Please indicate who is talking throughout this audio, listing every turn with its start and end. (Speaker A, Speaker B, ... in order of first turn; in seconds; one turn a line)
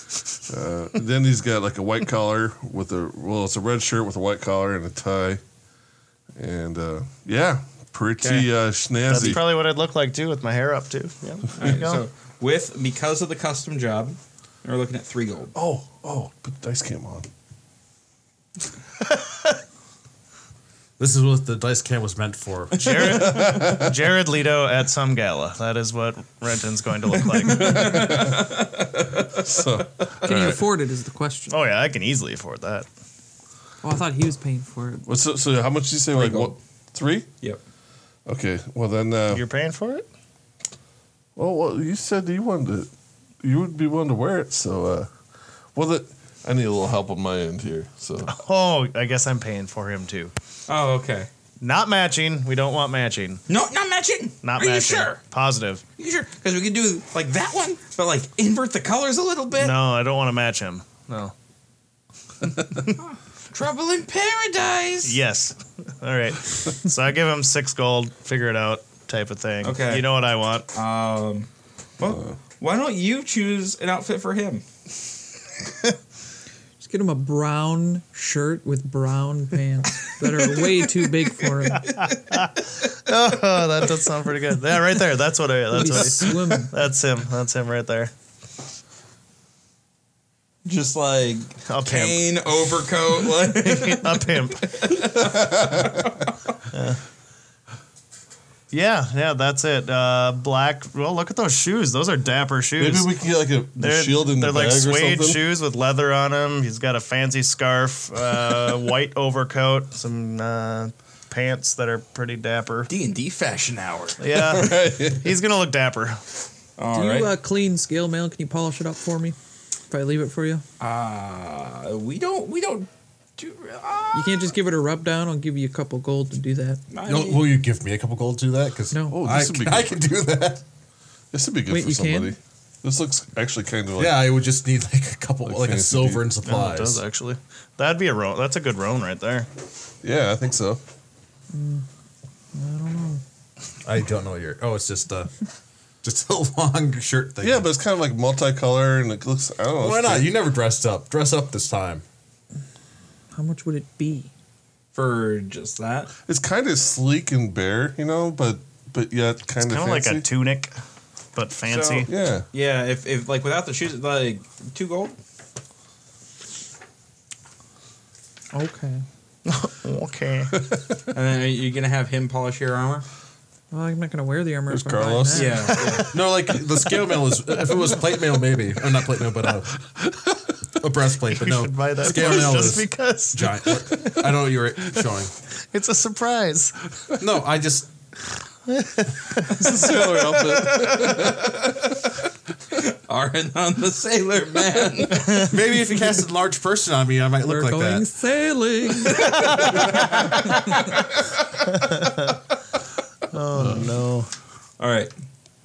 Speaker A: 0.5-5.4
Speaker A: 6.4-9.5
Speaker B: 8.2-8.5
Speaker C: 9.1-12.0
Speaker B: 11.6-15.5
Speaker A: 15.6-17.3
Speaker D: 21.0-23.2
Speaker C: 22.8-28.2
Speaker A: 23.1-23.9
Speaker B: 27.5-29.4
Speaker A: 27.6-28.5
Speaker A: 29.4-30.6
Speaker E: 30.2-31.6
Speaker C: 31.5-32.9
Speaker E: 33.8-35.0
Speaker A: 35.1-37.3
Speaker B: 36.1-36.5
Speaker A: 38.3-39.4
Speaker C: 39.3-40.1
Speaker A: 41.4-42.9
Speaker A: 43.4-45.1
Speaker A: 45.7-48.3
Speaker C: 48.3-50.3
Speaker B: 50.7-51.3
Speaker C: 51.6-53.4
Speaker B: 53.5-55.2
Speaker C: 54.4-55.8
Speaker B: 56.0-59.8
Speaker C: 59.6-61.3
Speaker C: 62.5-62.9
Speaker B: 63.0-65.2
Speaker C: 65.0-70.7
Speaker B: 69.6-70.1
Speaker B: 70.7-74.6
Speaker A: 72.0-72.4
Speaker E: 76.8-82.0
Speaker B: 81.4-82.5
Speaker C: 81.7-88.1
Speaker E: 85.7-86.8
Speaker B: 90.7-96.3
Speaker C: 91.7-92.2
Speaker C: 93.3-94.8
Speaker A: 95.2-96.0
Speaker C: 96.7-97.0
Speaker C: 98.7-103.1
Speaker A: 102.8-105.4
Speaker C: 103.8-112.9
Speaker B: 112.9-114.5
Speaker C: 114.2-116.2
Speaker A: 114.4-115.2
Speaker B: 116.8-117.3
Speaker E: 116.9-119.4
Speaker E: 119.9-120.6
Speaker B: 120.8-124.5
Speaker E: 124.1-126.8
Speaker B: 126.9-127.5
Speaker D: 127.0-130.6
Speaker E: 128.9-129.2
Speaker A: 129.1-130.0
Speaker A: 131.3-134.3
Speaker E: 131.7-132.3
Speaker D: 134.0-137.0
Speaker A: 135.4-136.2
Speaker C: 136.4-139.5
Speaker A: 140.0-140.8
Speaker E: 141.5-141.9
Speaker E: 142.5-143.2
Speaker D: 143.8-145.3
Speaker D: 146.0-147.7
Speaker A: 147.4-150.3
Speaker D: 149.8-152.0
Speaker E: 153.3-154.3
Speaker B: 154.9-156.1
Speaker A: 156.2-160.3
Speaker C: 159.6-160.8
Speaker C: 161.3-162.1
Speaker A: 161.7-162.5
Speaker B: 162.5-165.2
Speaker E: 168.5-169.0
Speaker C: 169.4-170.6
Speaker A: 170.5-171.0
Speaker B: 171.1-173.1
Speaker E: 173.7-175.8
Speaker A: 174.7-176.1
Speaker B: 175.3-176.1
Speaker C: 175.7-176.1
Speaker D: 176.1-180.2
Speaker D: 180.7-185.3
Speaker C: 181.3-184.5
Speaker C: 185.6-186.8
Speaker D: 187.2-187.9
Speaker C: 188.7-190.2
Speaker A: 189.4-191.8
Speaker B: 190.7-191.7
Speaker B: 192.8-195.5
Speaker D: 195.3-198.1
Speaker E: 197.5-200.8
Speaker B: 199.2-201.0
Speaker C: 201.7-202.4
Speaker C: 203.3-204.3
Speaker B: 204.8-205.1